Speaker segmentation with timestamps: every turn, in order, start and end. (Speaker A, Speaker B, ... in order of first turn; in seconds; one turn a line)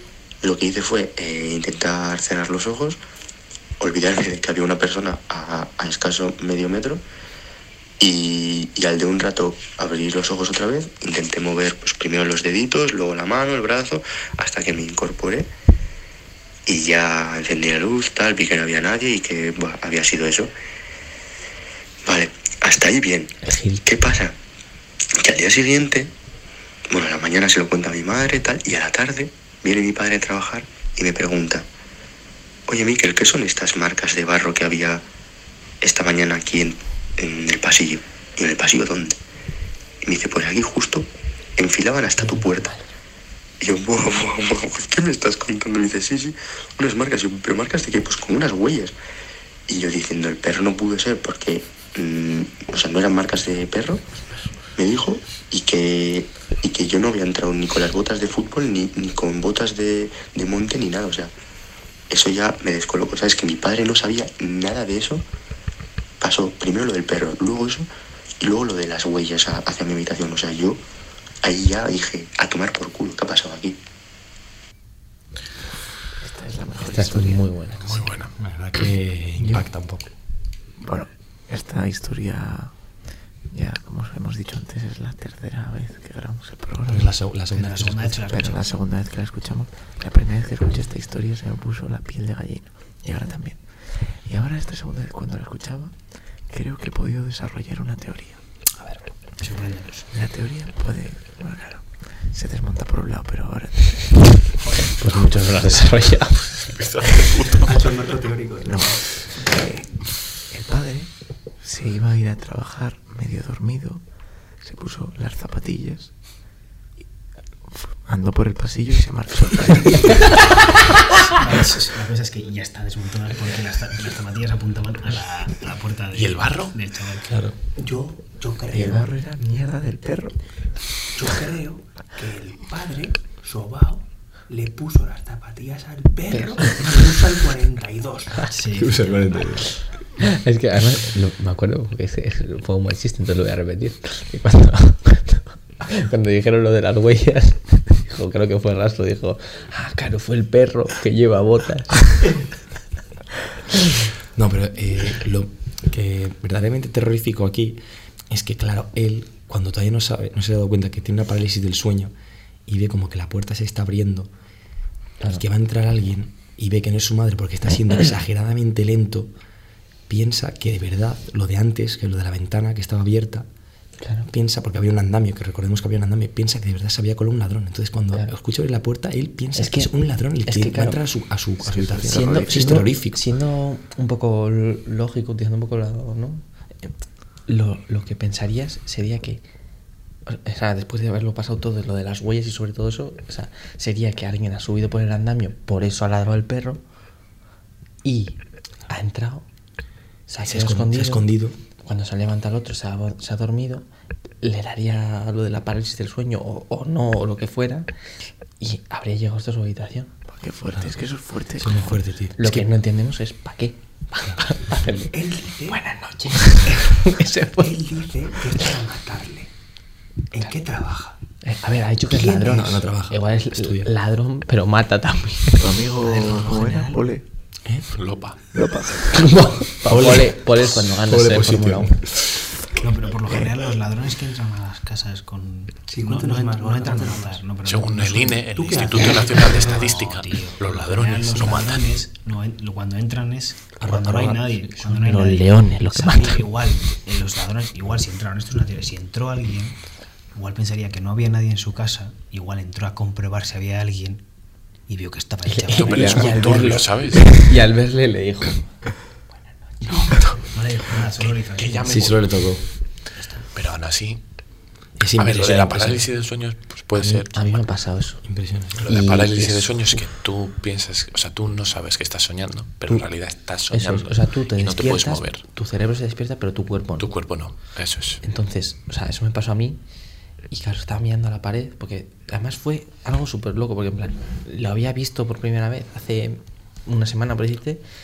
Speaker A: 0.4-3.0
Speaker A: 3.8-7.0
Speaker A: 8.0-15.5
Speaker A: 16.6-20.5
Speaker A: 22.1-24.3
Speaker B: 23.4-23.8
Speaker A: 25.2-26.1
Speaker A: 26.9-31.6
Speaker A: 32.7-35.0
Speaker A: 35.8-39.2
Speaker A: 40.0-42.7
Speaker B: 42.2-42.9
Speaker A: 43.6-48.9
Speaker A: 49.7-54.0
Speaker A: 54.8-61.3
Speaker A: 62.1-65.2
Speaker A: 66.2-67.8
Speaker A: 68.4-70.8
Speaker A: 71.4-73.8
Speaker C: 76.2-77.4
Speaker B: 76.8-78.0
Speaker D: 77.8-78.3
Speaker E: 78.4-80.1
Speaker C: 80.8-82.7
Speaker C: 83.5-87.1
Speaker E: 86.9-88.4
Speaker F: 87.5-88.6
Speaker C: 88.3-96.0
Speaker C: 96.5-98.4
Speaker F: 98.8-100.0
Speaker C: 100.1-104.2
Speaker B: 104.9-106.7
Speaker D: 106.7-107.8
Speaker G: 107.6-109.0
Speaker C: 108.6-114.0
Speaker C: 114.6-116.1
Speaker C: 117.7-120.3
Speaker F: 121.3-127.3
Speaker D: 126.1-126.8
Speaker E: 127.2-127.6
Speaker G: 127.8-129.1
Speaker C: 128.6-130.4
Speaker G: 131.1-138.4
Speaker B: 136.3-136.9
Speaker F: 138.4-139.4
Speaker E: 138.8-139.7
Speaker B: 140.2-152.4
Speaker E: 154.3-162.1
Speaker E: 162.7-164.3
Speaker E: 165.2-169.3
Speaker E: 170.1-173.5
Speaker B: 174.0-174.3
Speaker E: 174.3-183.2
Speaker B: 179.5-179.9
Speaker B: 180.4-181.0
Speaker C: 181.6-182.8
Speaker B: 182.0-186.9
Speaker B: 187.5-189.4
Speaker B: 190.3-196.8
Speaker B: 198.0-199.4
Speaker B: 200.3-201.3
Speaker E: 200.4-201.6
Speaker B: 201.8-203.9
Speaker B: 204.4-207.9
Speaker B: 208.6-210.1
Speaker C: 210.3-211.9
Speaker E: 211.6-212.7
Speaker B: 212.4-215.1
Speaker G: 215.1-215.8
Speaker B: 215.7-217.9
Speaker G: 217.5-219.5
Speaker G: 220.3-221.2
Speaker B: 221.4-225.6
Speaker G: 222.1-222.6
Speaker E: 222.4-223.9
Speaker C: 225.6-227.2
Speaker F: 225.7-227.1
Speaker D: 227.9-228.4
Speaker C: 228.5-229.0
Speaker B: 229.1-231.9
Speaker E: 229.8-232.4
Speaker F: 232.7-249.8
Speaker G: 235.9-237.4
Speaker D: 237.6-241.9
Speaker G: 238.5-239.8
Speaker E: 243.7-245.0
Speaker B: 245.0-246.4
Speaker F: 250.3-254.2
Speaker F: 254.9-256.8
Speaker B: 255.4-258.7
Speaker D: 255.7-257.3
Speaker E: 256.2-256.7
Speaker B: 259.8-260.1
Speaker F: 260.5-262.1
Speaker D: 261.2-262.2
Speaker E: 261.8-262.7
Speaker F: 263.1-263.5
Speaker D: 263.5-264.2
Speaker E: 265.0-266.1
Speaker D: 265.2-267.3
Speaker E: 266.9-267.3
Speaker B: 267.3-268.2
Speaker E: 268.2-269.0
Speaker B: 268.8-270.0
Speaker D: 268.8-275.4
Speaker B: 273.7-277.1
Speaker D: 277.0-278.2
Speaker B: 278.2-279.8
Speaker B: 280.5-287.8